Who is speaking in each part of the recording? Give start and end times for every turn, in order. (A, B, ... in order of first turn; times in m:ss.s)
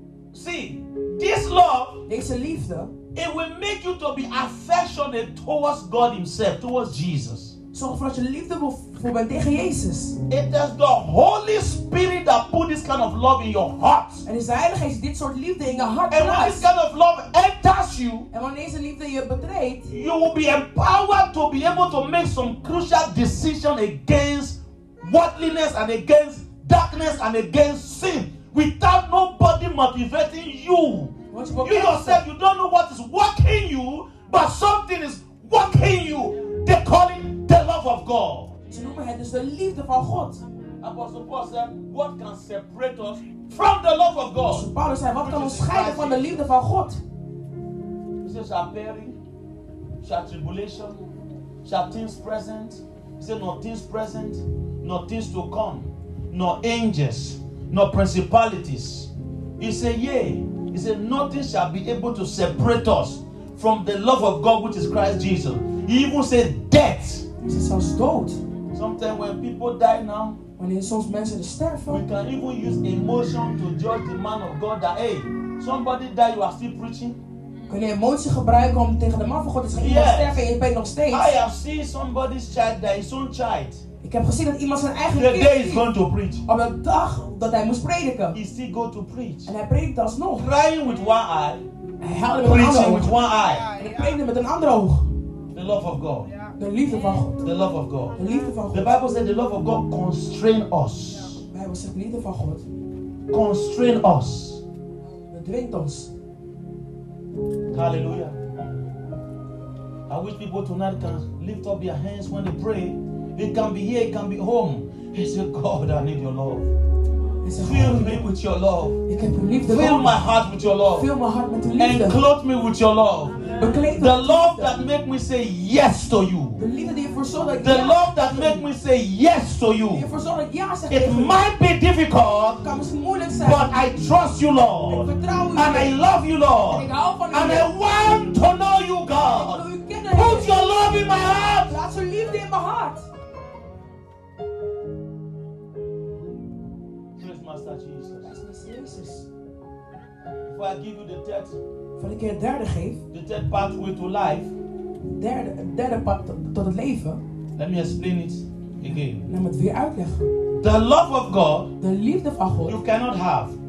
0:00.3-0:02.0 A
0:02.1-0:02.9 B
0:03.1-0:07.5 A
0:07.7-0:10.2 B
0:10.3-0:14.2 A
0:14.2-0:16.7 B
0:16.1-0:18.3 A
0:18.3-0:19.9 B
0:19.9-0:38.5 A
0:31.3-0:32.2 B
0:38.7-0:40.4 B
0:40.8-0:46.5 A
0:44.5-0:47.0 B
0:48.2-0:49.2 A
0:50.0-0:51.0 A
0:51.6-1:07.3 A
1:07.4-1:08.4 B
1:08.7-1:10.4 A
1:10.6-1:12.0 B
1:11.9-1:17.2 A
1:17.7-1:21.4 B
1:19.8-1:20.4 A
1:21.1-1:23.8 A
1:24.0-1:25.8 B
1:25.1-1:26.4 A
1:26.4-1:28.4 B
1:28.3-1:29.5 A
1:29.4-1:30.5 B
1:30.4-1:31.6 A
1:32.0-1:35.1 B
1:32.4-1:33.7 A
1:35.5-1:36.3 A
1:36.6-1:37.4 B
1:37.4-1:38.2 A
1:38.2-1:38.9 B
1:38.7-1:41.4 A
1:41.5-1:42.6 B
1:43.3-1:44.6 A
1:45.3-1:46.1 B
1:47.7-1:48.3 A
1:50.1-1:56.7 A
1:57.4-1:58.3 B
1:57.6-1:59.0 A
1:59.0-2:00.2 B
1:59.6-2:01.1 A
2:00.8-2:02.2 B
2:01.8-2:06.6 A
2:03.5-2:04.8 B
2:06.6-2:08.6 B
2:07.6-2:10.1 A
2:09.9-2:11.4 B
2:10.9-2:12.6 A
2:12.6-2:13.8 B
2:13.4-2:21.8 A
2:14.9-2:16.0 B
2:16.6-2:17.7 B
2:19.1-2:20.7 B
2:21.6-2:23.1 B
2:27.2-2:28.3 A
2:28.2-2:29.3 B
2:30.5-2:31.6 A
2:32.0-2:33.0 B
2:33.1-2:34.5 A
2:35.2-2:37.2 B
2:37.6-2:39.3 A
2:38.8-2:40.3 B
2:40.6-2:41.7 A
2:41.8-2:42.8 B
2:42.6-2:43.6 A